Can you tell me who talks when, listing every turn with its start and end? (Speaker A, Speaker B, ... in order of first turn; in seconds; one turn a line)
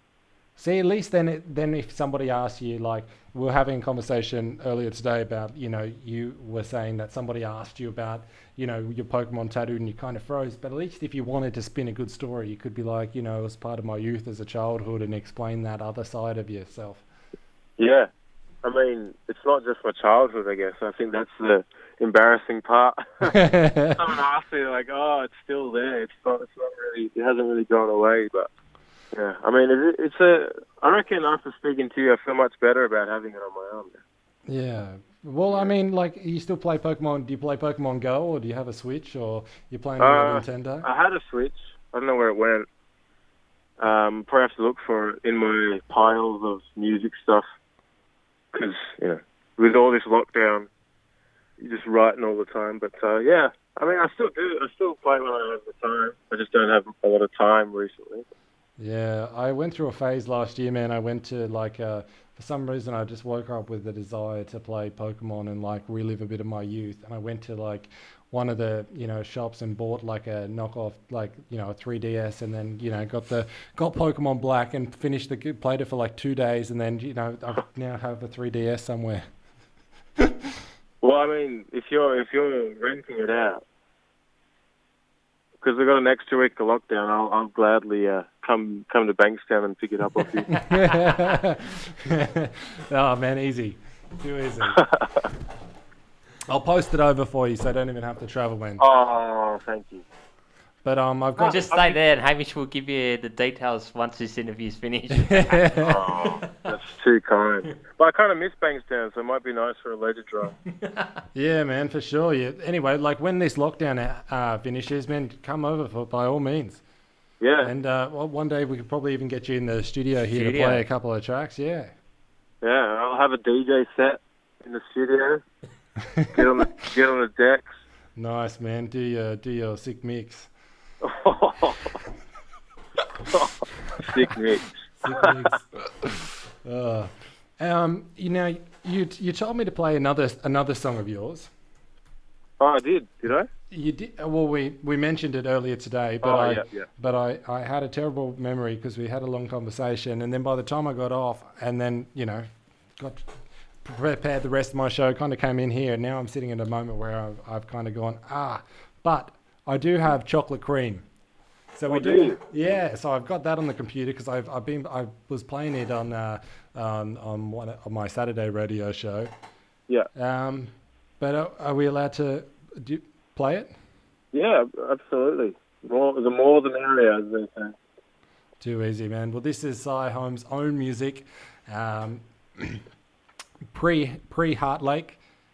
Speaker A: 0.6-17.0
Speaker B: 17.8-18.1
Speaker B: 18.6-23.3
Speaker A: 23.2-24.0
Speaker B: 23.9-28.5
Speaker B: 29.1-34.0
Speaker A: 34.5-40.9
Speaker B: 40.0-42.7
Speaker B: 43.8-47.4
Speaker B: 48.5-50.7
Speaker B: 51.6-58.2
Speaker A: 58.8-79.2
Speaker A: 80.2-80.6
Speaker B: 81.0-83.6
Speaker B: 85.6-90.5
Speaker A: 90.5-94.8
Speaker B: 94.7-95.2
Speaker A: 96.5-98.8
Speaker B: 98.8-100.0
Speaker A: 100.8-101.7
Speaker B: 101.4-101.9
Speaker C: 101.4-105.7
Speaker A: 105.1-106.0
Speaker B: 105.8-110.5
Speaker C: 110.7-111.1
Speaker A: 111.3-116.8
Speaker B: 117.4-117.7
Speaker A: 117.6-121.9
Speaker C: 120.2-120.8
Speaker B: 122.6-125.4
Speaker A: 126.0-126.4
Speaker B: 126.3-127.7
Speaker A: 128.2-130.5
Speaker B: 131.0-131.9
Speaker B: 133.3-135.5
Speaker A: 135.0-141.5
Speaker B: 142.6-143.5
Speaker A: 143.7-153.3
Speaker B: 146.2-146.9
Speaker A: 153.8-161.0
Speaker A: 161.7-169.3
Speaker B: 161.9-162.4
Speaker A: 170.1-173.7
Speaker B: 174.3-177.8
Speaker A: 178.6-182.8
Speaker A: 183.7-185.2